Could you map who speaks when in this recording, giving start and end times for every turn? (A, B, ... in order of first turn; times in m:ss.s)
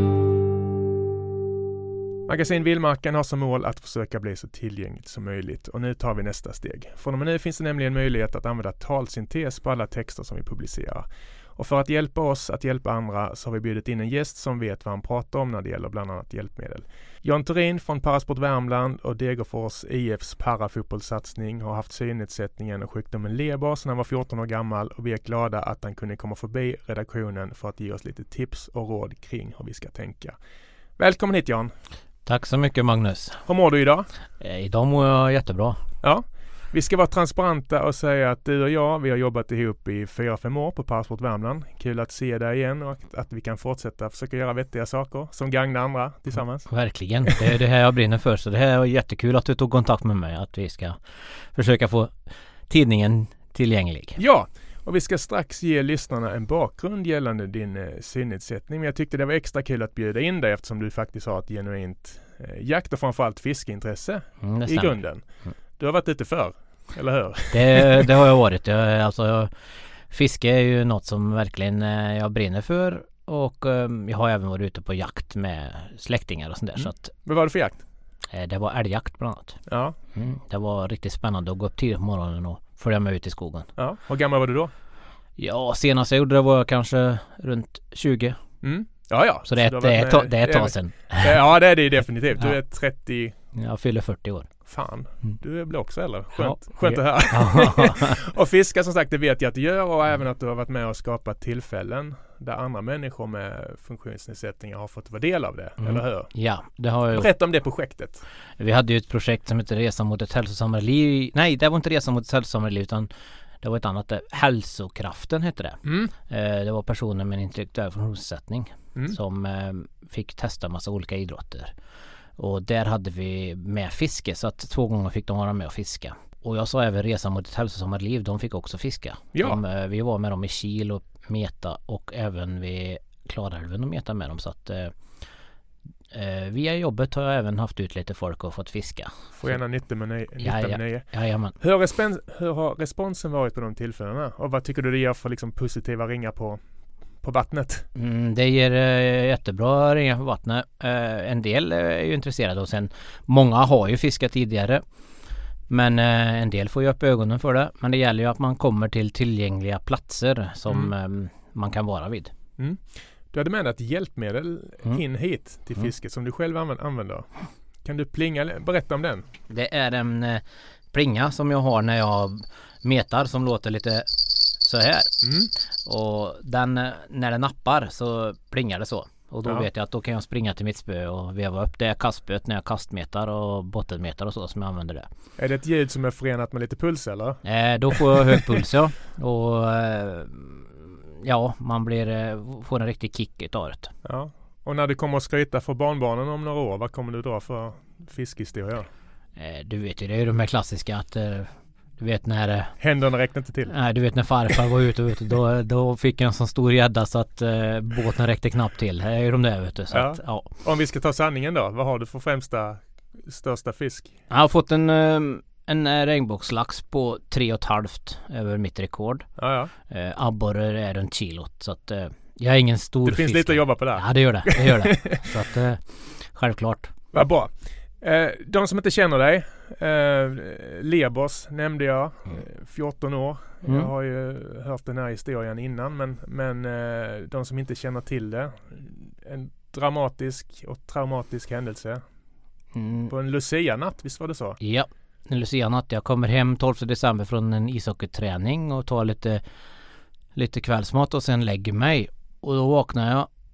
0:02.3-0:30.4 A
0:31.0-0:31.7 A
0:32.2-0:33.4 B
0:33.4-0:34.1 A
0:34.4-0:35.8 B
0:36.0-0:46.7 A
0:46.7-0:52.2 B
0:52.7-0:54.2 B
0:54.2-1:05.2 A
1:04.4-1:05.5 B
1:05.8-1:08.0 A
1:07.5-1:17.1 B
1:16.8-1:17.8 A
1:18.3-1:19.6 B
1:19.7-1:20.0 A
1:20.1-1:23.7 B
1:23.8-1:24.7 A
1:25.4-1:28.4 B
1:28.6-1:33.3 A
1:29.5-1:31.4 B
1:33.5-1:34.5 B
1:34.6-1:46.3 A
1:36.3-1:38.2 B
1:45.8-1:47.3 B
1:47.1-1:48.2 A
1:48.6-1:53.1 B
1:53.6-2:01.8 B
1:55.8-1:56.1 A
2:02.4-2:15.0 B
2:09.3-2:09.6 A
2:16.1-2:19.6 B
2:19.3-2:26.6 A
2:20.4-2:21.6 B
2:27.2-2:27.9 A
2:27.9-2:34.8 B
2:35.7-2:42.3 B
2:40.7-2:40.9 A
2:42.6-2:49.2 A
2:49.5-3:05.1 B
2:55.2-2:55.5 A
3:05.4-3:08.4 A
3:07.4-3:13.9 B
3:14.0-3:18.9 A
3:19.4-3:22.8 B
3:22.8-3:23.7 A
3:23.6-3:30.5 B
3:29.9-3:34.1 A
3:34.3-3:39.3 B
3:39.4-3:39.7 A
3:39.8-3:46.9 B
3:43.0-3:45.2 A
3:47.1-4:02.0 A
3:53.6-3:53.9 B
4:02.7-4:03.1 B
4:03.1-4:04.6 A
4:04.6-4:09.4 B
4:10.3-4:13.3 B